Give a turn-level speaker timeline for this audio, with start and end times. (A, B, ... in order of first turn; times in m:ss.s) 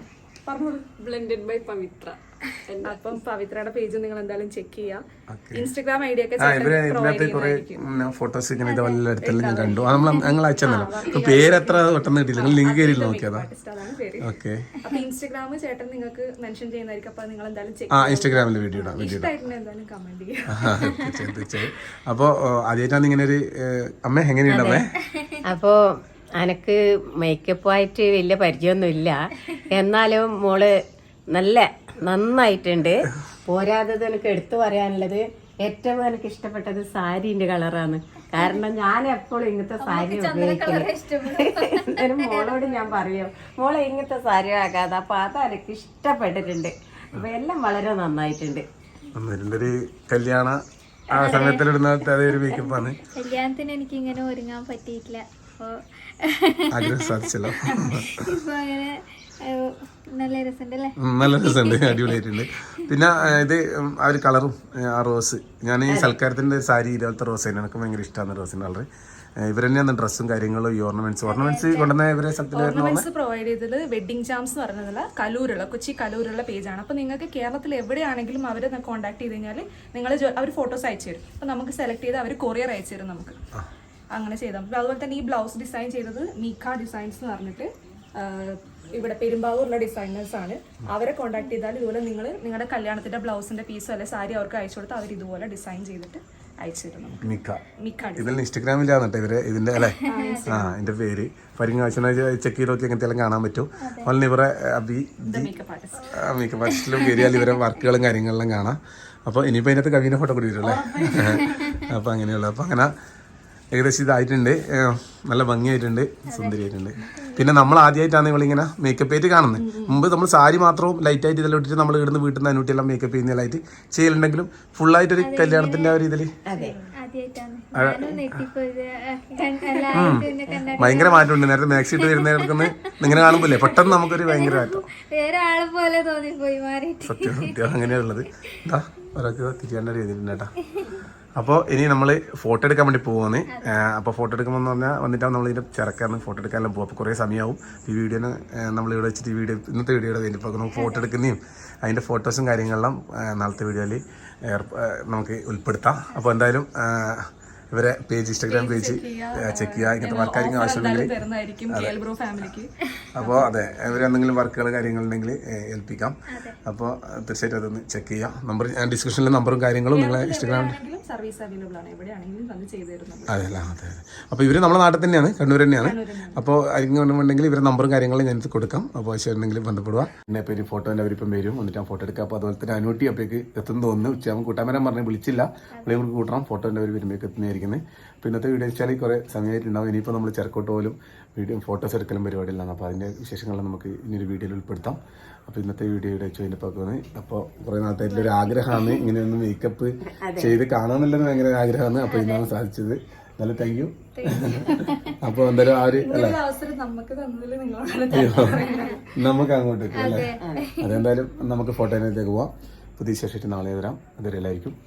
0:00.5-0:01.0 A
0:01.0-0:03.2 B
0:02.8-0:07.8 A
0:05.3-0:05.7 C
0:06.4-0:13.5 C
0:08.6-0:09.0 D
0:09.2-0:14.3 A
0:14.2-0:14.7 C
0:14.8-0:20.8 A
0:17.9-0:19.3 C
0:20.5-0:24.9 C
0:24.5-0:24.8 E
0:25.0-0:25.4 D
0:25.4-0:25.8 E
0:26.4-0:30.7 E
0:31.3-0:48.6 E
0:39.8-0:43.0 D
0:49.1-0:50.6 C
0:51.1-0:53.0 C
0:51.1-0:51.6 D
0:53.0-1:02.2 D
0:56.7-0:58.3 C
1:01.0-1:13.0 C
1:05.9-1:06.2 E
1:11.3-1:11.9 A
1:12.5-1:23.4 A
1:24.1-1:37.3 A
1:37.2-1:37.6 C
1:37.8-1:38.4 A
1:38.2-1:45.5 C
1:39.8-1:40.5 D
1:40.0-1:40.7 A
1:43.8-1:44.1 D
1:45.2-1:46.1 A
1:46.1-1:52.9 C
1:46.7-1:47.6 D
1:50.6-1:51.8 A
1:53.7-2:06.3 C
1:56.3-1:57.5 D
1:59.6-2:00.0 A
2:05.2-2:06.0 D
2:06.5-2:06.8 E
2:06.6-2:17.8 D
2:07.8-2:08.4 C
2:09.9-2:14.8 C
2:17.0-2:20.5 C
2:20.7-2:21.0 D
2:21.4-2:41.1 C
2:23.5-2:23.8 D
2:30.8-2:31.1 D
2:36.1-2:36.4 D
2:38.5-2:43.5 A
2:41.7-2:42.0 C
2:43.1-2:50.8 C
2:46.3-2:46.6 D
2:49.9-2:53.3 A
2:53.3-3:26.4 C
2:55.8-2:56.4 A
3:05.7-3:06.0 D
3:18.0-3:19.0 D
3:20.2-3:20.6 E
3:22.1-3:22.5 D
3:24.2-3:25.2 D
3:26.0-3:29.1 A
3:28.1-3:28.6 C
3:28.6-3:29.0 D
3:29.2-3:34.7 C
3:29.9-3:31.0 D
3:30.4-3:30.6 E